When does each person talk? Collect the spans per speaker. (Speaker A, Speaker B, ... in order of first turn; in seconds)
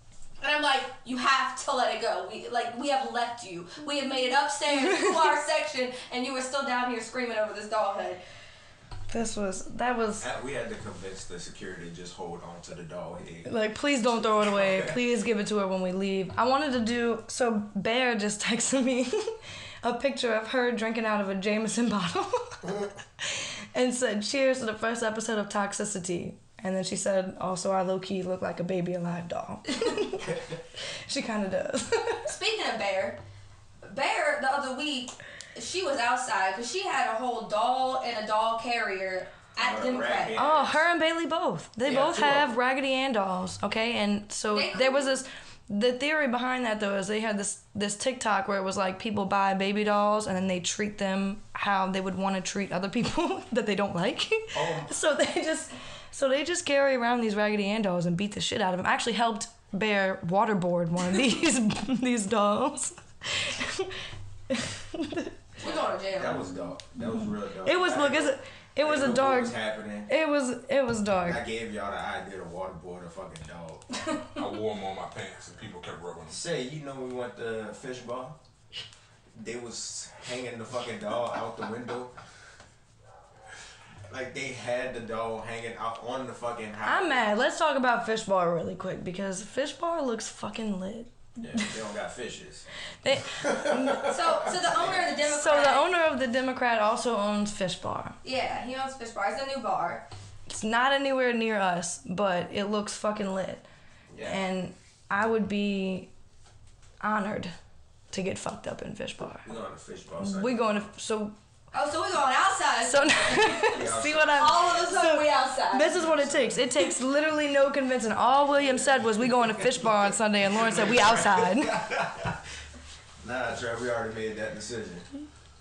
Speaker A: 0.4-8.2, 32.2-33.2, 33.8-40.4, 44.5-45.1, 65.6-66.5, 94.1-95.9, 98.2-100.0, 111.7-113.8, 114.3-115.9
Speaker B: 4.7-5.3, 9.1-10.2, 13.4-30.3, 31.1-32.3, 40.4-63.9, 64.5-65.3, 67.6-69.5, 70.1-71.4, 86.8-91.7, 93.0-94.1, 95.2-98.2, 100.5-103.7, 104.2-106.1, 107.0-107.5, 108.1-109.5, 110.2-111.3, 112.8-121.8
Speaker C: 10.2-15.0, 39.6-40.9, 41.8-42.5, 54.5-54.9, 65.6-70.1, 71.2-73.8, 76.3-78.3, 79.3-82.1, 84.1-87.2, 91.4-92.7, 93.7-95.1, 104.1-104.4, 109.4-110.8, 113.7-115.0, 115.9-116.7, 118.5-122.4, 123.2-125.1
Speaker D: 74.3-76.4